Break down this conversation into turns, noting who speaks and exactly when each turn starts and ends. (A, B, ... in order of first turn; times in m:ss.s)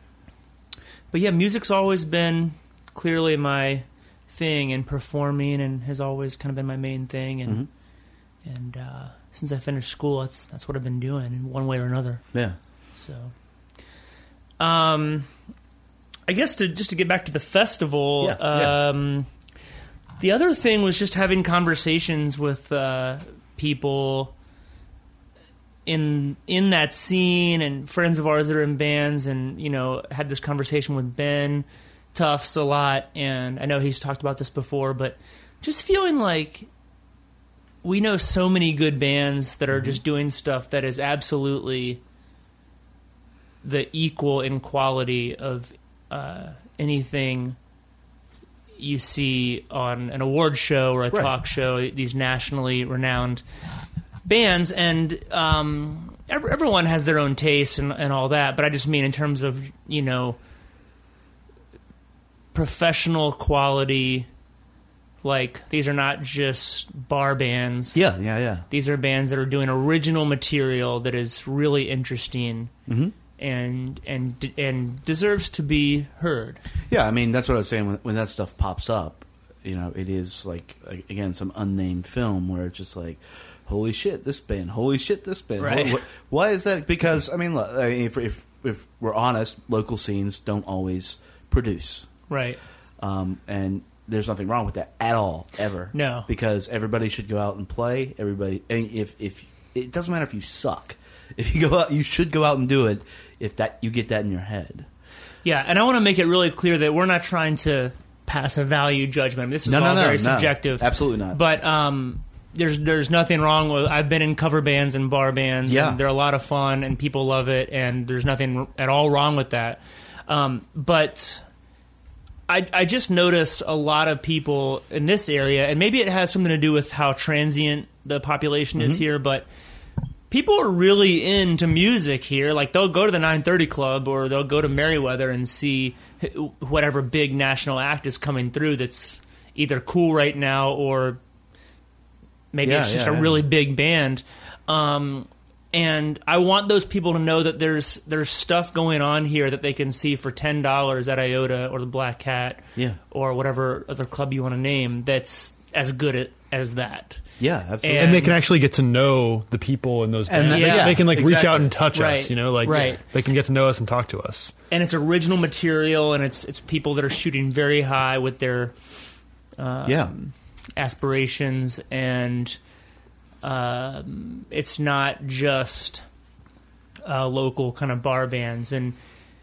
0:01.1-0:07.6 A
0:08.4-0:12.3 A
0:12.9-0:13.3 A
0:14.6-0:15.3 A
0:16.3-0:19.3 A
0:18.2-0:18.8 B
0:20.2-0:24.3 A
0:25.9-0:36.7 A
0:37.8-0:42.0 A
0:43.6-0:47.6 A
0:48.8-0:53.4 A
0:54.2-1:00.4 A
1:02.5-1:04.3 A
1:05.2-1:08.1 A
1:08.0-1:08.6 B
1:08.7-1:12.7 A
1:12.9-1:13.1 B
1:13.4-1:16.6 A
1:16.9-1:32.1 B
1:25.6-1:26.0 A
1:32.3-1:32.6 A
1:33.0-1:44.9 B
1:35.9-1:36.3 A
1:45.4-2:01.4 A
1:49.6-1:51.4 B
1:55.7-1:56.0 B
2:02.5-2:09.5 A
2:08.8-2:09.0 B
2:10.3-2:21.2 A
2:22.5-2:38.4 A
2:22.6-2:23.4 B
2:37.4-2:38.3 B
2:38.0-2:44.6 C
2:40.3-2:41.8 B
2:40.5-2:41.0 A
2:41.9-2:43.0 A
2:42.7-2:43.0 B
2:44.7-2:48.8 A
2:49.6-2:52.6 A
2:49.8-2:50.1 B
2:53.4-2:56.0 A
2:57.0-2:59.0 A